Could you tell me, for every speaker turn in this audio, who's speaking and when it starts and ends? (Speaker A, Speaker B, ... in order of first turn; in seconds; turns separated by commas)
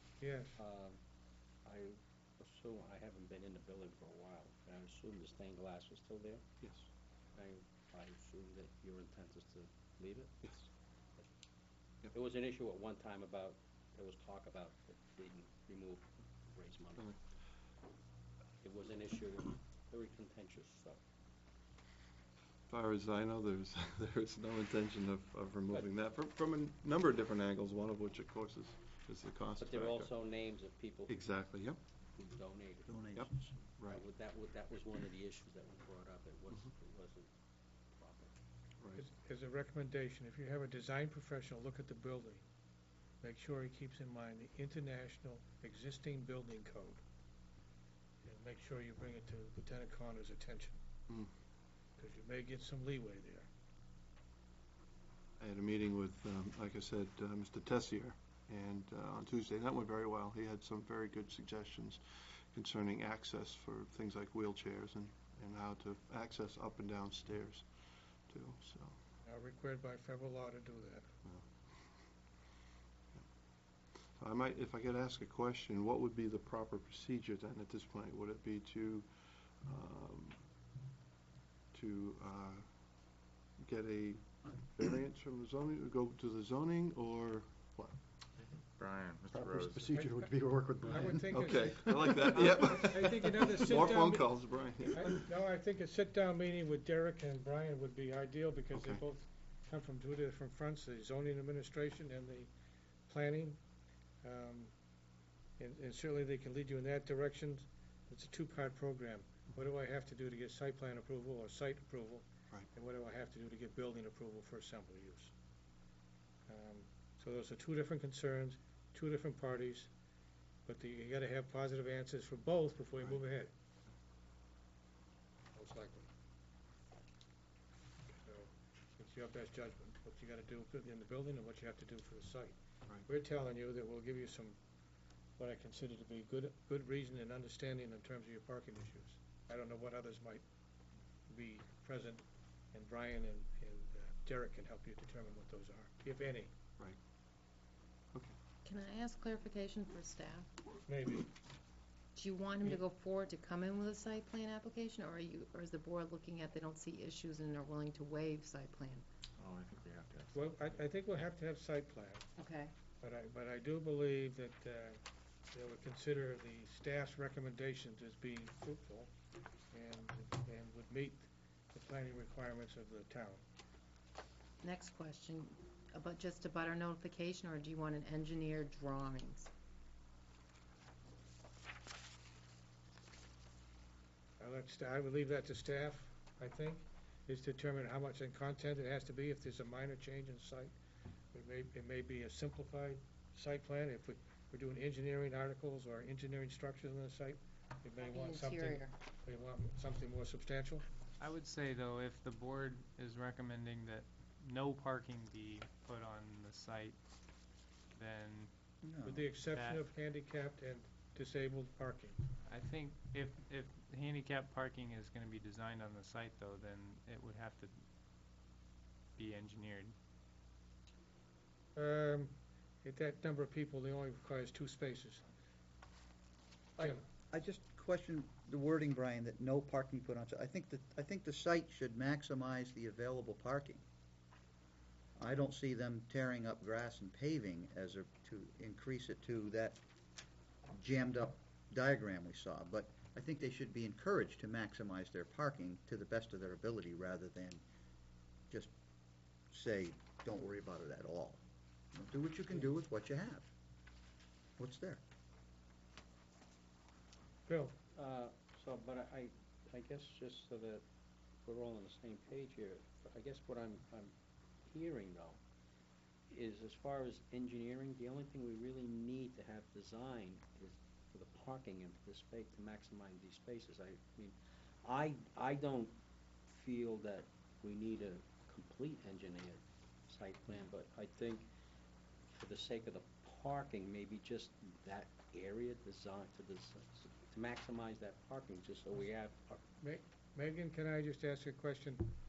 Speaker A: 0.2-0.6, Speaker B: 0.6-1.0, Speaker B: 1.6-6.5, Speaker B: 7.3-10.7, Speaker B: 12.1-17.1, Speaker B: 18.6-21.0, Speaker C: 22.7-30.2, Speaker B: 29.6-31.3, Speaker C: 31.1-31.8, Speaker B: 32.1-37.3, Speaker D: 32.9-33.5, Speaker C: 33.2-34.0, Speaker B: 38.0-38.3, Speaker C: 38.8-39.0, Speaker A: 39.0-42.4, Speaker A: 43.2-47.0, Speaker A: 48.2-50.8, Speaker A: 52.0-53.5, Speaker C: 55.4-62.0, Speaker C: 62.5-67.7, Speaker C: 68.3-69.0, Speaker A: 69.2-71.1, Speaker C: 74.2-79.1, Speaker C: 79.6-80.4, Speaker C: 81.7-82.7, Speaker C: 83.6-88.0, Speaker E: 88.4-89.8, Speaker D: 89.4-91.3, Speaker A: 89.8-102.5, Speaker C: 91.3-95.3, Speaker C: 98.7-99.0, Speaker A: 103.1-103.6, Speaker A: 104.2-104.7, Speaker A: 105.6-115.3, Speaker A: 116.5-119.9, Speaker A: 120.7-123.5, Speaker A: 125.5-126.1, Speaker A: 128.2-134.6, Speaker A: 135.4-140.4, Speaker A: 141.3-142.2, Speaker A: 142.7-146.5, Speaker F: 148.7-150.5, Speaker A: 150.9-151.3, Speaker F: 152.2-159.1, Speaker E: 159.4-160.4, Speaker A: 160.3-162.3, Speaker F: 162.4-162.7, Speaker A: 163.0-165.0, Speaker A: 165.5-169.1, Speaker A: 169.7-173.4, Speaker F: 174.6-179.5, Speaker A: 184.4-190.7, Speaker A: 191.3-200.9, Speaker F: 198.0-198.9, Speaker G: 201.2-207.0, Speaker G: 207.9-208.5, Speaker D: 208.8-209.3, Speaker A: 209.0-212.2, Speaker G: 209.6-209.8, Speaker G: 212.5-217.7, Speaker G: 219.2-219.9, Speaker A: 221.8-225.2, Speaker A: 226.8-227.1, Speaker D: 227.3-233.8, Speaker D: 235.2-239.8, Speaker D: 240.7-247.6, Speaker D: 249.5-251.4, Speaker D: 251.9-253.5, Speaker D: 254.6-255.0, Speaker A: 257.5-257.8, Speaker B: 257.9-260.8, Speaker B: 261.4-264.1, Speaker B: 264.6-265.4, Speaker B: 266.3-276.0, Speaker B: 276.5-281.5, Speaker B: 282.3-289.6, Speaker A: 289.8-292.1